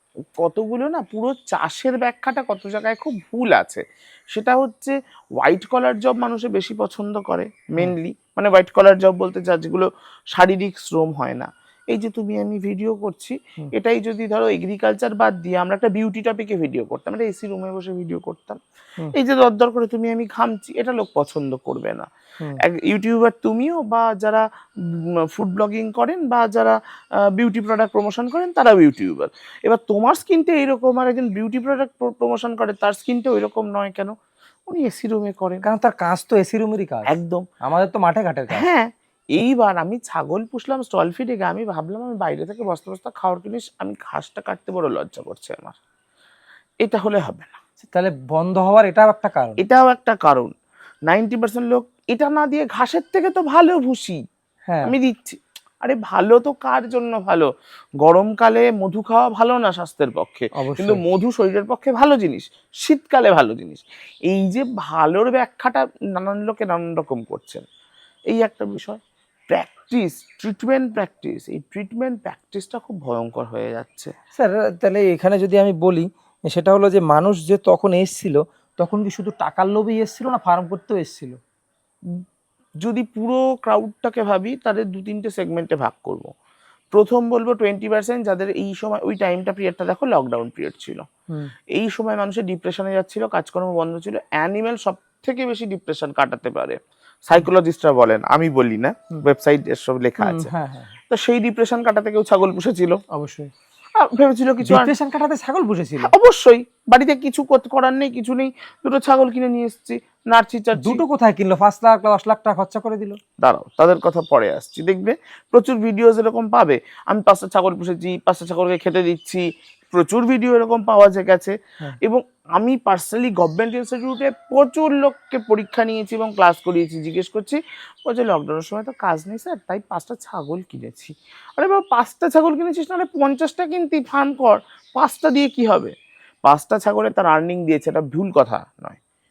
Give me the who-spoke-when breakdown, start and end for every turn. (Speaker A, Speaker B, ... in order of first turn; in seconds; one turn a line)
Speaker A: 0.4-3.8
Speaker A: 4.3-18.6
Speaker A: 19.1-22.1
Speaker A: 22.6-34.1
Speaker A: 34.7-35.6
Speaker B: 35.6-37.1
Speaker A: 37.1-37.5
Speaker B: 37.6-38.6
Speaker A: 38.5-45.8
Speaker A: 46.8-47.6
Speaker B: 47.9-49.6
Speaker A: 49.6-50.5
Speaker A: 51.1-54.2
Speaker B: 54.7-54.9
Speaker A: 54.8-57.5
Speaker A: 58.0-67.6
Speaker B: 60.6-61.0
Speaker A: 68.3-74.1
Speaker B: 74.3-81.4
Speaker A: 82.8-86.3
Speaker A: 86.9-91.0
Speaker A: 91.7-100.5
Speaker B: 100.2-100.9
Speaker A: 101.1-103.0
Speaker B: 103.1-103.5
Speaker A: 104.0-104.9
Speaker B: 104.6-106.1
Speaker A: 106.0-111.0
Speaker B: 110.8-113.2
Speaker A: 113.4-135.9
Speaker A: 136.4-139.0